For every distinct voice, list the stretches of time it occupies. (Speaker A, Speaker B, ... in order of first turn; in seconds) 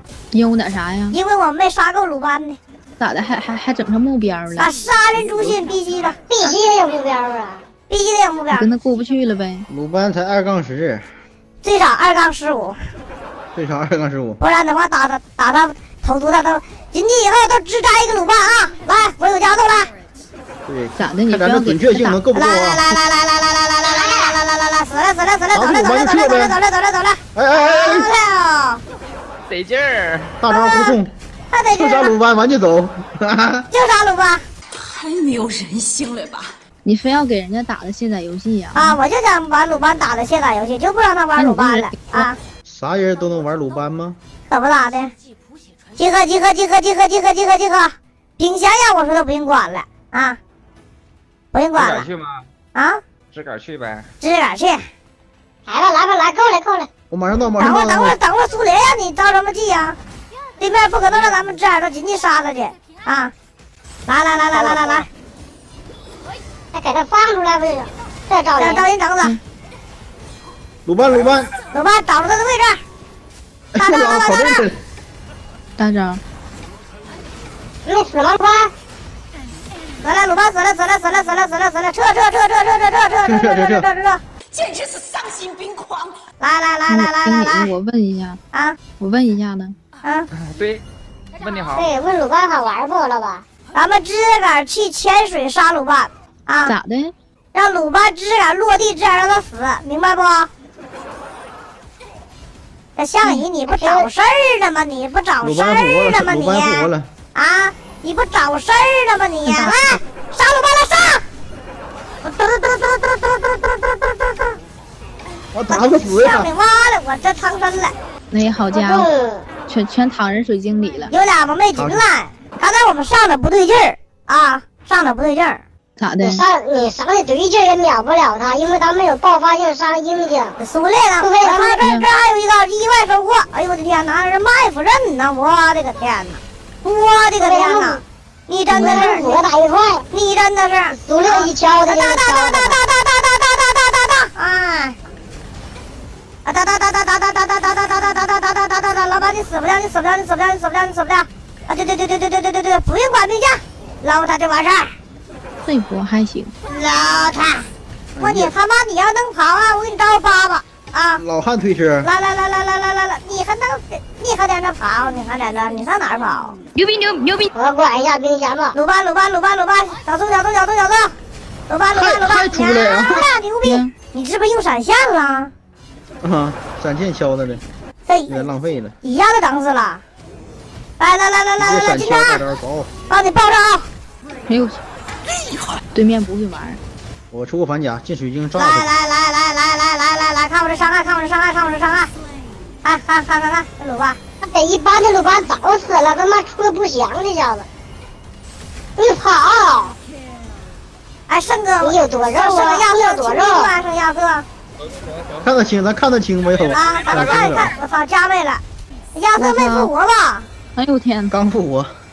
Speaker A: 0.3-1.2, 3.0-4.7, 8.5-9.7, 21.0-22.2, 36.8-39.0, 41.4-42.3, 75.8-76.2, 86.9-88.4, 89.0-89.8, 96.7-97.2, 109.5-110.0, 118.3-119.1, 119.7-121.2, 126.0-126.4, 131.8-132.1, 138.7-139.2, 155.6-156.6, 166.8-167.5, 173.6-173.9, 184.5-184.8, 185.9-186.8, 209.4-209.9, 210.8-211.3
Speaker B: 1.1-2.6, 4.6-6.4, 7.9-8.7, 11.6-12.8, 14.4-19.9, 22.3-28.8, 30.5-31.0, 31.5-32.2, 33.7-34.4, 38.8-42.4, 44.5-45.1, 46.0-50.4, 51.5-52.1, 52.8-53.0, 54.2-54.8, 57.6-60.0, 60.6-63.3, 64.1-65.1, 68.6-69.4, 71.7-72.8, 73.8-74.7, 80.0-84.2, 86.4-87.7, 93.7-96.7, 97.5-100.5, 103.0-111.2, 112.2-114.6, 115.7-118.0, 121.1-125.6, 130.6-139.4, 140.1-145.0, 146.4-154.9, 156.7-161.2, 162.0-166.6, 168.7-171.1, 171.7-175.5, 178.1-178.4, 179.0-180.0, 181.0-182.4, 183.1-183.9, 188.6-192.1, 192.8-194.2, 201.3-204.5, 206.7-208.6, 209.2-210.5
Speaker C: 6.3-7.6, 55.7-56.9, 66.7-68.9, 77.9-78.7, 91.7-93.4, 103.7-104.1, 118.7-119.5, 126.2-130.6, 131.2-131.8, 137.4-138.0, 138.7-140.1, 140.9-142.8, 167.6-168.8, 194.4-197.7, 199.0-200.0, 201.8-203.7
Speaker D: 9.7-11.1, 13.5-14.4, 20.7-22.9, 25.5-26.6, 27.4-28.1, 30.4-31.1, 31.8-33.7, 42.6-44.2, 57.1-58.2, 70.9-71.5, 73.8-74.8, 83.2-83.9, 105.4-107.1, 115.5-116.5, 121.8-122.0, 158.2-158.5, 161.2-162.1, 171.9-173.3, 176.2-177.6, 178.3-178.9, 181.6-182.9, 187.3-188.9, 205.4-207.7, 211.3-212.0
Speaker E: 29.5-30.4, 51.8-52.5, 53.3-54.1, 90.4-90.8, 91.4-91.9, 204.8-205.5, 206.5-207.8
Speaker F: 34.8-36.6, 84.5-86.2, 185.3-185.8